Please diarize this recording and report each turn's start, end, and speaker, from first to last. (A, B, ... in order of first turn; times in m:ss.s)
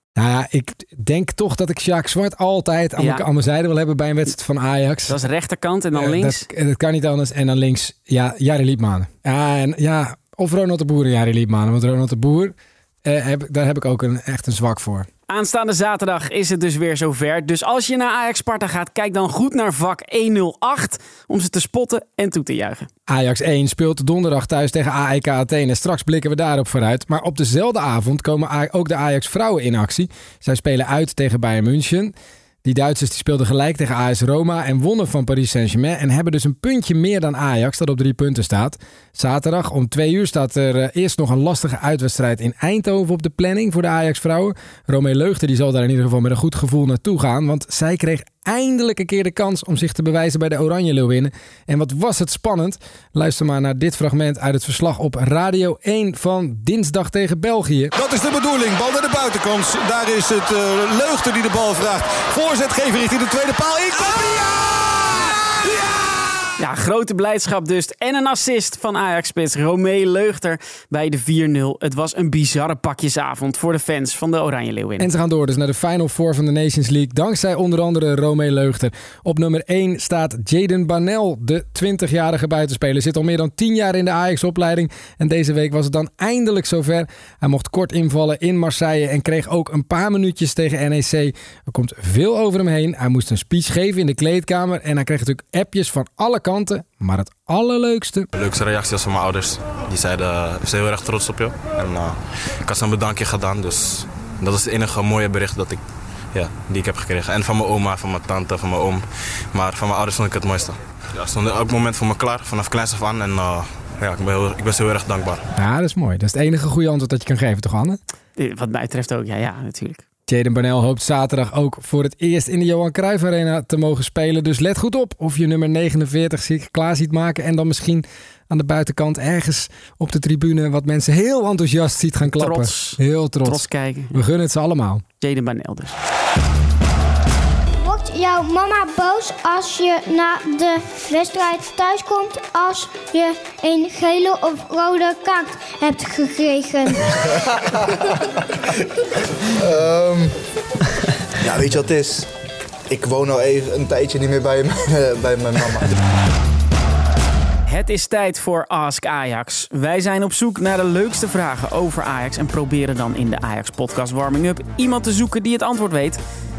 0:00.2-0:05.2 A
0:03.0-0:03.2 B
0:05.1-0:06.5 B
0:05.9-0:12.5 A
0:13.0-0:15.1 A
0:15.3-0:22.9 B
0:23.1-0:32.1 A
0:32.6-0:57.9 A
0:58.0-1:03.9 C
1:06.6-1:15.1 B
1:15.0-1:38.3 A
1:38.3-1:55.5 D
1:55.6-1:58.0 A
1:58.4-2:00.0 B
2:00.3-2:15.0 A
2:12.3-2:14.2 B
2:15.2-2:15.9 B
2:17.8-2:27.0 E
2:29.6-2:30.3 F
2:31.4-2:32.3 F
2:32.9-2:35.9 F
2:37.7-2:46.2 B